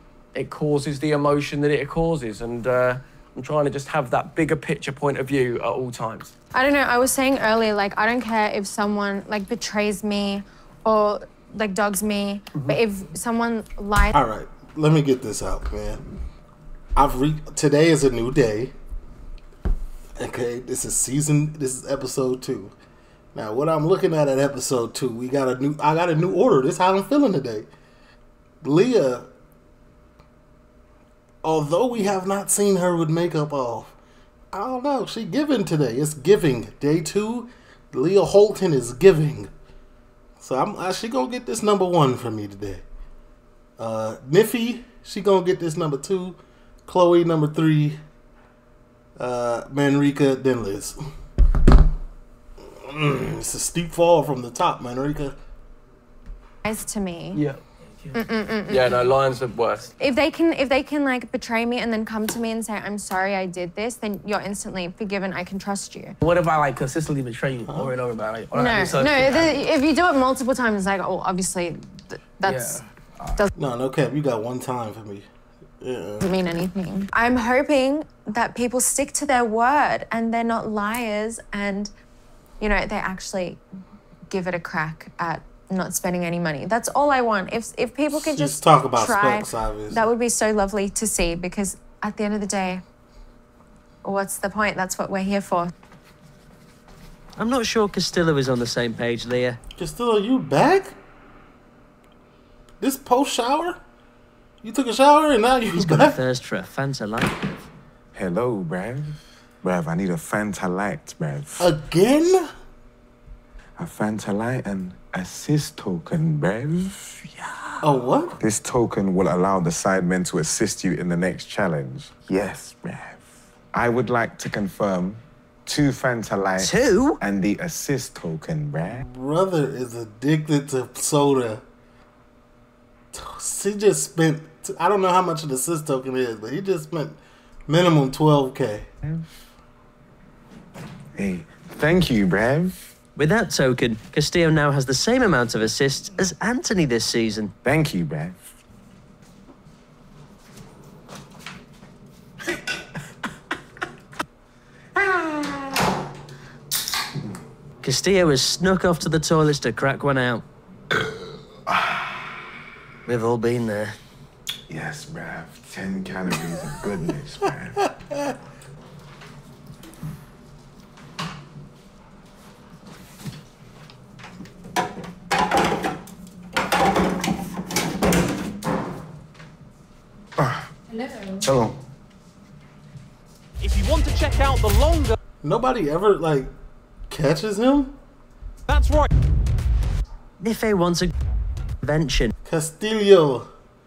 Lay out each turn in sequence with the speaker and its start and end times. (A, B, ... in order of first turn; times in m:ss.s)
0:00.3-0:06.3 A
0:06.5-0:14.1 B
0:14.1-0:16.0 C
0:17.0-0:18.7 C
0:20.2-0:22.7 C
0:23.3-0:27.7 C
0:28.6-0:29.3 C
0:31.4-0:34.0 C
0:34.5-0:39.5 C
0:40.4-0:42.8 C
0:43.8-0:48.0 C
0:49.2-0:51.0 C
0:52.8-0:55.4 C
0:56.6-0:57.4 B
0:58.1-0:59.0 B
0:58.7-0:59.9 A
1:00.0-1:06.2 B
1:06.2-1:09.6 D
1:07.7-1:08.0 C
1:08.5-1:13.5 B
1:12.4-1:13.2 D
1:13.6-1:15.3 C
1:15.8-1:16.3 C
1:16.2-1:21.9 B
1:22.6-1:23.6 B
1:24.3-1:32.8 B
1:28.1-1:30.0 C
1:34.0-1:35.7 B
1:37.4-1:39.6 E
1:39.8-1:40.9 C
1:42.8-1:43.8 C
1:44.6-1:46.2 C
1:45.7-1:47.5 E
1:48.1-1:51.7 F
1:51.6-1:52.5 C
1:53.8-1:57.2 F
1:57.8-1:58.3 C
1:58.4-2:03.2 F
2:03.7-2:09.0 F
2:06.6-2:07.2 E
2:08.9-2:11.6 C
2:13.1-2:18.9 C
2:21.2-2:22.8 F
2:23.2-2:27.5 E
2:27.6-2:28.4 F
2:37.8-2:40.4 E
2:41.7-2:42.0 F
2:43.0-2:43.9 E
2:44.7-2:47.8 F
3:00.9-3:01.4 B
3:03.6-3:05.1 G
3:05.4-3:06.5 C
3:07.1-3:07.9 C
3:08.7-3:09.0 G
3:10.4-3:11.1 E
3:11.8-3:12.3 E
3:12.5-3:13.5 C